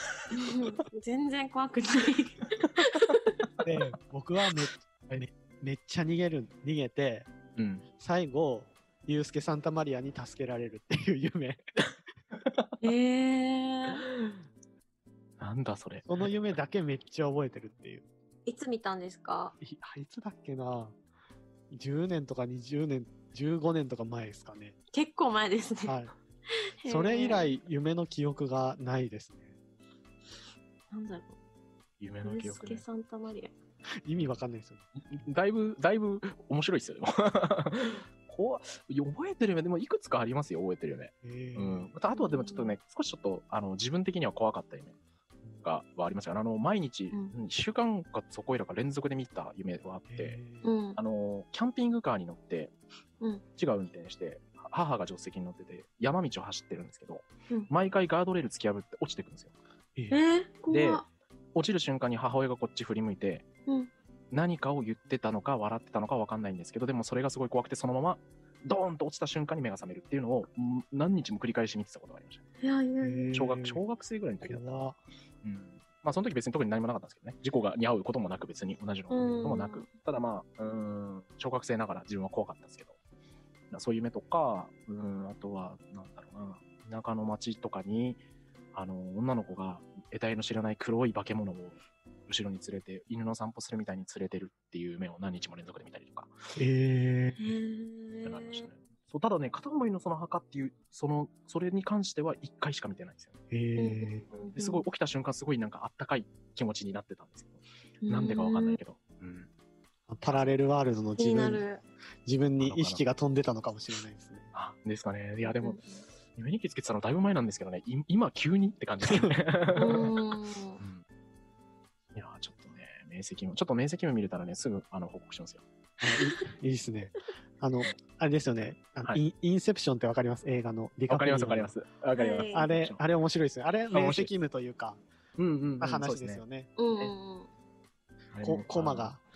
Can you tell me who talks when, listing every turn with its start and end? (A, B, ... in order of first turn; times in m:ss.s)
0:00.3-0:03.4 A
0:03.6-0:07.3 B
0:07.6-0:07.8 C
0:08.0-0:11.6 B
0:12.8-0:14.1 A
0:15.4-0:16.3 C
0:16.1-0:18.1 B
0:18.5-0:19.6 A
0:19.6-0:21.0 B
0:21.7-0:24.8 B
0:24.9-0:26.0 A
0:25.8-0:26.1 B
0:26.8-0:27.5 A
0:26.9-0:29.5 B
0:30.9-0:31.4 A
0:32.0-0:32.8 C
0:32.2-0:33.5 A
0:34.0-0:34.9 B
0:35.1-0:45.0 C
0:41.2-0:41.9 B
0:42.1-0:42.8 A
0:45.6-0:50.4 C
0:50.1-0:50.6 B
0:50.6-0:51.0 A
0:51.0-0:52.7 C
0:53.6-0:59.5 C
1:00.1-1:01.1 A
1:00.7-1:01.0 C
1:01.6-1:03.5 C
1:04.3-1:12.4 C
1:12.6-1:13.4 A
1:13.0-1:13.8 B
1:13.3-1:14.9 C
1:14.4-1:15.0 B
1:15.4-1:23.0 C
1:19.1-1:19.9 A
1:23.7-1:28.2 C
1:28.7-1:36.3 C
1:36.6-1:37.4 B
1:37.4-1:38.7 A
1:38.2-1:43.4 C
1:43.5-1:44.3 B
1:43.8-1:44.8 A
1:44.3-1:49.5 C
1:48.0-1:48.8 A
1:50.1-1:51.6 B
1:51.2-1:51.8 A
1:52.3-1:54.5 B
1:52.6-1:53.0 C
1:54.5-1:55.8 C
1:55.5-1:56.0 A
1:56.3-2:01.0 C
1:59.1-1:59.4 B
1:59.8-2:00.8 A
2:02.1-2:05.6 C
2:06.0-2:11.7 B
2:11.1-2:13.0 C
2:12.2-2:12.7 A
2:12.5-2:15.0 B
2:13.9-2:14.3 C
2:15.4-2:16.4 C
2:15.8-2:16.7 B
2:16.8-2:17.5 A
2:18.3-2:19.1 C
2:18.4-2:19.2 B